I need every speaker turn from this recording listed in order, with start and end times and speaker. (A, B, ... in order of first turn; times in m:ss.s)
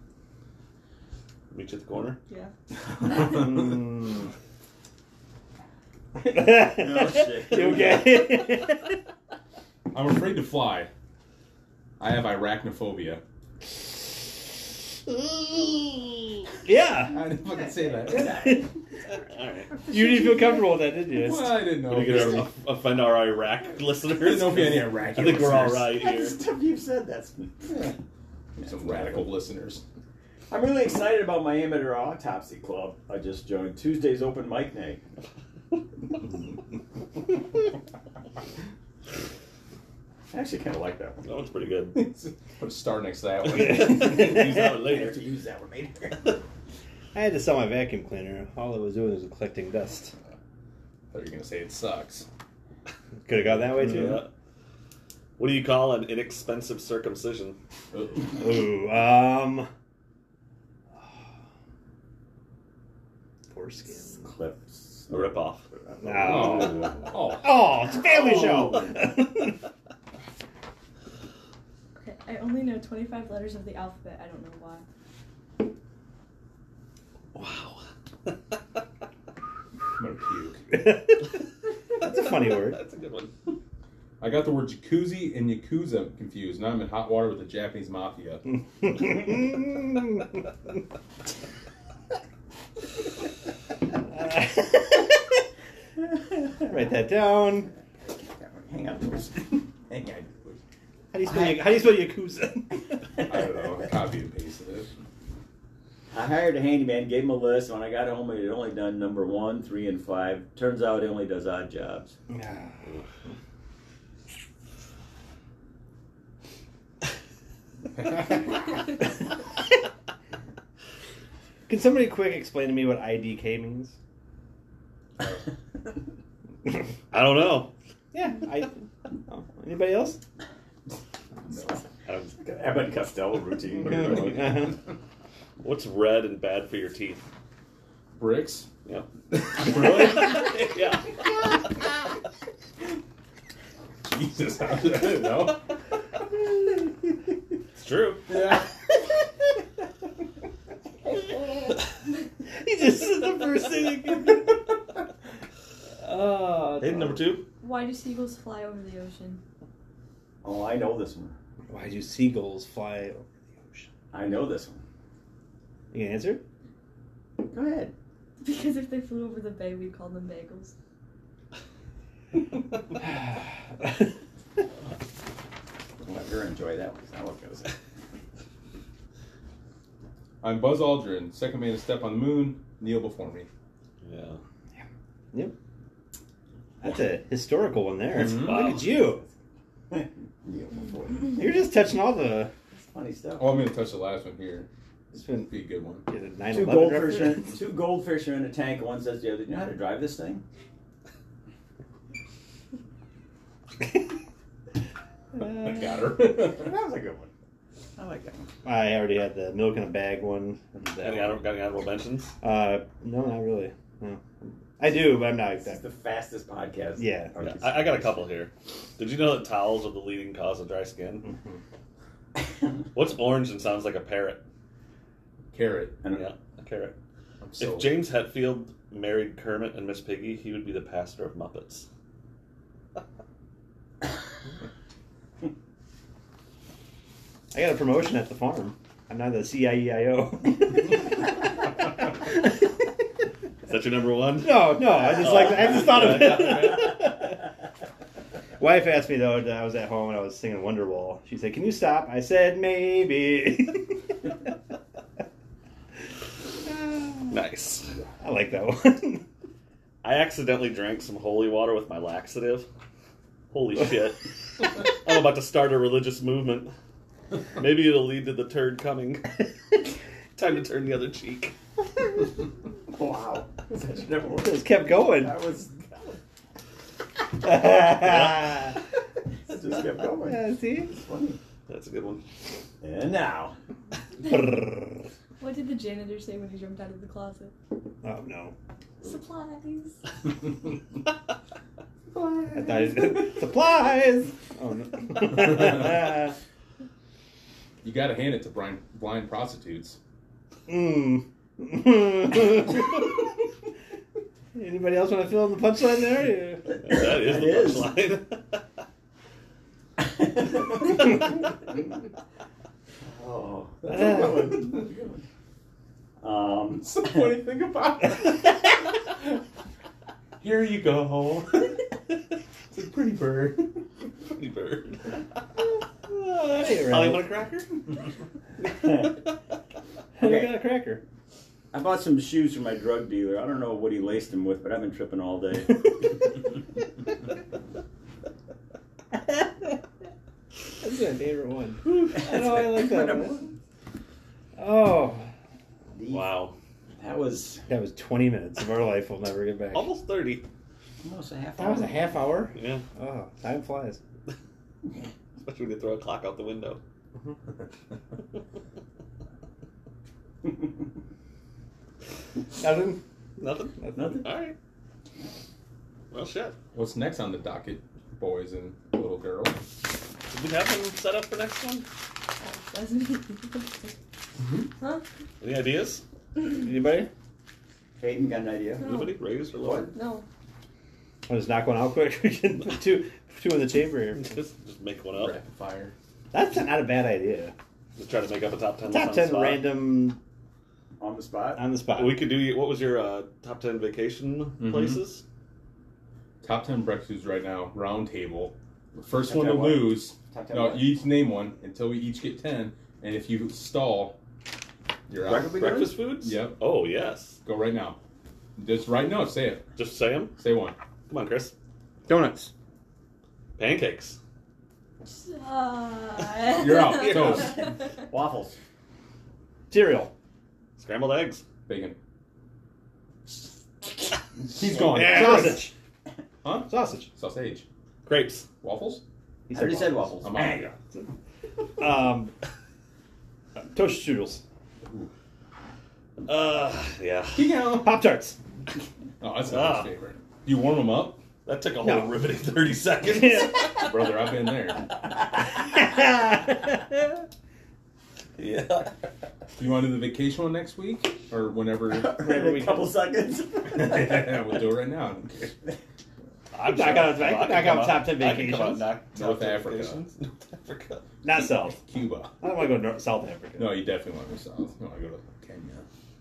0:01.5-0:02.2 A
0:03.0-0:03.6 B
0:03.1-0:04.3 C
0:06.2-0:09.0 C
0:06.2-0:08.3 D
0:09.9-0:10.9 B
0:12.0-0:13.2 B
0:16.6-0:17.3 C
0:17.1-0:18.6 B
0:17.8-0:18.7 D
0:18.2-0:18.7 C
0:19.2-0:19.8 A
0:19.8-0:20.6 D
0:19.9-0:21.6 C
0:21.1-0:22.5 B
0:21.8-0:26.4 A
0:24.1-0:26.0 B
0:25.9-0:27.9 D
0:27.7-0:28.0 B
0:28.6-0:29.8 B
0:28.6-0:29.3 D
0:30.5-0:35.0 D
0:40.3-0:41.3 D
0:41.2-0:42.0 A
0:41.9-0:44.7 B
0:43.6-0:45.2 A
0:44.0-0:44.4 C
0:44.4-0:46.4 D
0:47.1-0:50.1 C
0:51.1-0:52.3 B
0:53.3-0:54.3 C
0:53.5-0:54.3 A
0:55.4-0:57.6 A
0:57.9-0:58.4 B
0:58.3-0:59.7 C
1:03.5-1:04.3 C
1:04.2-1:07.0 D
1:05.1-1:05.6 A
1:06.0-1:06.9 C
1:06.2-1:07.7 B
1:07.4-1:09.6 C
1:08.2-1:08.8 D
1:12.0-1:14.8 E
1:17.4-1:17.8 A
1:20.0-1:20.6 B
1:20.7-1:21.3 C
1:22.0-1:22.8 C
1:22.0-1:23.3 A
1:24.2-1:28.4 B
1:28.8-1:30.2 C
1:34.1-1:35.4 C
1:36.6-1:37.7 C
1:38.0-1:40.6 D
1:41.1-1:43.0 C
1:41.2-1:41.7 D
1:43.2-1:44.9 B
1:46.1-1:52.2 D
1:52.3-1:52.8 C
2:01.7-2:04.0 C
2:07.1-2:07.7 A
2:08.1-2:10.2 C
2:12.1-2:12.4 A
2:12.4-2:14.6 D
2:14.0-2:14.6 B
2:14.1-2:14.8 C
2:15.6-2:17.3 A
2:18.2-2:18.7 B
2:18.8-2:21.3 A
2:19.5-2:20.5 B
2:24.0-2:25.6 B
2:27.8-2:28.3 A
2:28.3-2:28.7 B
2:32.6-2:34.6 C
2:36.0-2:37.4 C
2:36.8-2:37.5 A
2:37.6-2:39.4 E
2:40.4-2:41.4 D
2:41.7-2:43.9 C
2:44.1-2:44.8 D
2:45.9-2:46.4 C
2:47.4-2:47.9 D
2:48.4-2:50.7 E
2:56.0-2:57.7 D
3:00.4-3:03.5 B
3:04.0-3:04.4 A
3:06.8-3:09.2 C
3:08.1-3:08.6 B
3:08.2-3:09.1 A
3:09.9-3:11.5 D
3:11.4-3:12.5 C
3:12.7-3:13.6 D
3:13.4-3:14.7 B
3:15.1-3:15.5 C
3:15.4-3:16.1 B
3:16.1-3:17.6 C
3:16.5-3:20.4 D
3:25.4-3:26.7 B
3:25.4-3:25.8 C
3:26.5-3:27.3 D
3:28.0-3:28.5 D
3:28.6-3:31.4 C
3:31.0-3:32.3 A
3:32.4-3:35.8 C
3:35.6-3:38.3 D
3:37.0-3:37.3 C
3:37.4-3:41.3 A
3:42.9-3:44.4 A
3:45.5-3:46.0 B
3:46.0-3:46.3 D
3:46.1-3:47.0 A
3:47.4-3:48.0 B
3:47.6-3:51.9 A
3:57.5-4:01.5 C
4:02.2-4:02.6 C
4:03.7-4:06.9 A
4:04.4-4:07.5 C
4:08.6-4:14.2 C
4:16.7-4:17.3 C
4:17.3-4:17.9 A
4:18.2-4:19.2 C
4:20.0-4:22.7 A
4:23.5-4:26.7 A
4:27.6-4:29.5 A
4:30.4-4:31.5 A
4:32.9-4:36.2 D
4:34.4-4:35.4 C
4:37.4-4:38.8 C
4:39.5-4:41.4 D
4:40.2-4:40.9 C
4:41.7-4:42.2 A
4:42.8-4:43.6 D
4:44.2-4:44.5 E
4:44.3-4:44.9 C
4:45.4-4:47.5 E
4:48.0-4:48.5 C
4:49.0-4:50.0 E
4:52.1-4:53.0 D
4:52.5-4:56.4 C
4:57.8-5:00.0 B
5:00.7-5:03.1 C
5:04.6-5:06.7 C
5:06.8-5:08.6 A
5:06.9-5:07.9 D
5:10.0-5:11.2 D
5:13.0-5:15.2 D
5:13.9-5:14.3 C
5:16.2-5:17.3 D
5:16.8-5:18.8 B
5:20.4-5:21.8 B
5:22.7-5:23.8 B
5:24.3-5:25.2 A
5:26.3-5:27.3 C
5:26.4-5:27.7 A
5:28.8-5:29.1 D
5:30.2-5:31.0 C
5:30.2-5:30.6 D
5:31.7-5:36.1 D
5:40.8-5:43.4 C
5:42.0-5:43.5 D
5:44.6-5:45.3 C
5:46.0-5:46.3 D
5:46.1-5:46.5 A
5:47.0-5:47.7 D
5:47.7-5:49.9 C
5:49.7-5:50.4 A
5:51.0-5:52.1 D
5:51.6-5:54.0 C
5:52.5-5:52.8 A
5:55.4-5:56.8 A
6:02.6-6:03.0 C
6:03.4-6:04.6 A
6:03.8-6:04.2 C
6:06.1-6:06.6 A
6:06.7-6:09.6 B
6:10.3-6:11.9 A
6:12.4-6:14.0 E
6:15.4-6:16.0 A
6:16.4-6:17.1 C
6:18.0-6:18.9 D
6:18.8-6:19.2 E
6:18.8-6:19.9 A
6:19.6-6:19.9 D
6:19.9-6:20.2 E
6:21.3-6:24.4 C
6:24.2-6:25.4 A
6:25.2-6:26.0 B
6:26.3-6:27.5 C
6:28.0-6:29.7 A
6:28.9-6:30.2 C
6:31.0-6:31.6 D
6:31.6-6:32.3 C
6:31.9-6:35.2 A
6:34.6-6:35.0 B
6:36.4-6:44.2 B
6:39.2-6:41.0 D
6:45.1-6:45.6 B
6:45.2-6:46.0 D
6:45.5-6:47.4 A
6:46.2-6:46.6 B
6:47.4-6:48.0 B
6:48.6-6:49.6 B
6:49.8-6:50.4 A
6:50.4-6:50.8 B
6:51.1-6:51.5 A
6:52.1-6:52.5 C
6:53.6-6:54.2 A
6:55.0-6:57.8 E
6:56.5-6:57.7 B
6:57.1-6:58.6 D
6:59.7-7:00.1 C
7:00.8-7:01.4 A
7:01.7-7:02.0 B
7:04.4-7:05.7 B
7:04.8-7:05.7 C
7:06.4-7:07.6 B
7:06.7-7:07.1 C
7:08.0-7:08.5 A
7:08.6-7:09.0 B
7:09.5-7:10.1 C
7:09.5-7:10.8 D
7:10.2-7:10.7 B
7:11.8-7:12.3 C
7:13.6-7:14.4 C
7:14.8-7:15.1 B
7:16.2-7:17.6 A
7:17.3-7:18.0 B
7:17.8-7:18.4 C
7:19.2-7:21.2 B
7:19.4-7:19.9 A
7:21.4-7:23.9 A
7:21.8-7:22.2 C
7:23.1-7:23.7 C
7:23.8-7:24.9 B
7:25.8-7:27.0 C
7:28.4-7:28.9 A
7:29.6-7:32.2 B
7:31.9-7:34.4 D
7:32.2-7:32.9 C
7:33.7-7:35.6 B
7:36.5-7:41.0 A
7:36.6-7:38.9 C
7:39.1-7:40.0 B
7:41.2-7:41.8 C
7:41.7-7:42.4 B
7:42.4-7:43.8 C
7:43.6-7:45.8 B